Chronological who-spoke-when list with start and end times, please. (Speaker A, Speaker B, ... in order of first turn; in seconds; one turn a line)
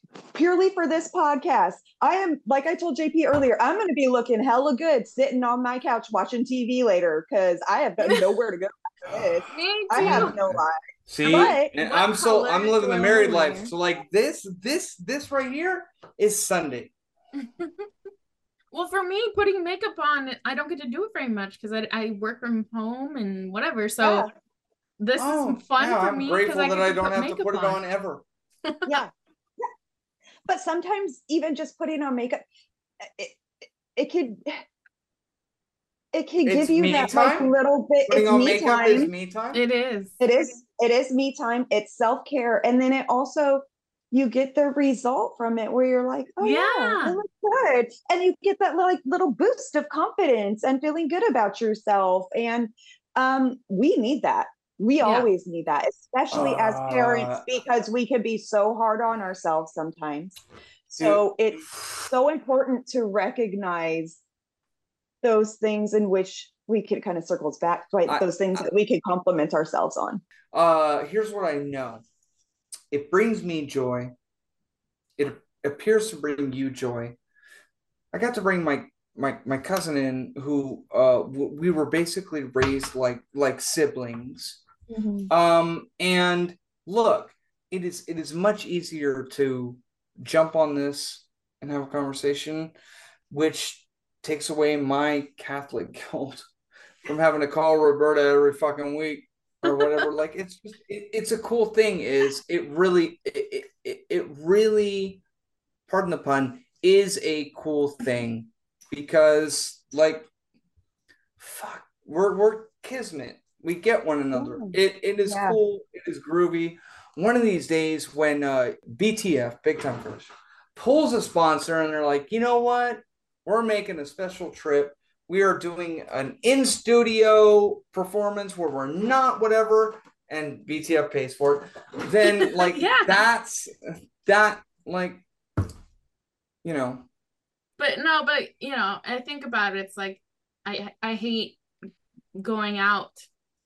Speaker A: 0.3-11.7
Speaker B: 9.5-10.4
Speaker C: 10.0-16.9
Speaker B: 11.3-13.7
Speaker B: 17.4-17.7
Speaker B: 18.7-24.3
Speaker A: 24.0-24.3
Speaker B: 25.0-27.8
Speaker C: 25.2-28.2
Speaker B: 28.6-29.0
Speaker A: 28.9-29.1
Speaker A: 30.4-32.4
Speaker A: 33.0-34.6
Speaker A: 36.1-39.1
Speaker C: 36.4-37.5
Speaker C: 38.0-39.6
Speaker B: 39.5-40.1
Speaker A: 40.2-64.2
Speaker B: 46.4-47.2
Speaker B: 55.0-55.3
Speaker C: 56.3-57.4
Speaker C: 61.0-62.0
Speaker A: 65.2-70.2
Speaker C: 68.0-68.7
Speaker C: 70.5-72.0
Speaker C: 72.9-74.1
Speaker C: 75.2-77.2
Speaker C: 78.1-84.6
Speaker A: 84.9-85.3
Speaker C: 85.3-92.7
Speaker C: 93.3-96.5
Speaker C: 97.0-105.2
Speaker C: 105.9-110.3
Speaker C: 111.4-135.2
Speaker A: 114.3-115.6
Speaker B: 132.2-133.2
Speaker C: 136.6-137.1
Speaker B: 137.8-141.6
Speaker B: 142.3-143.3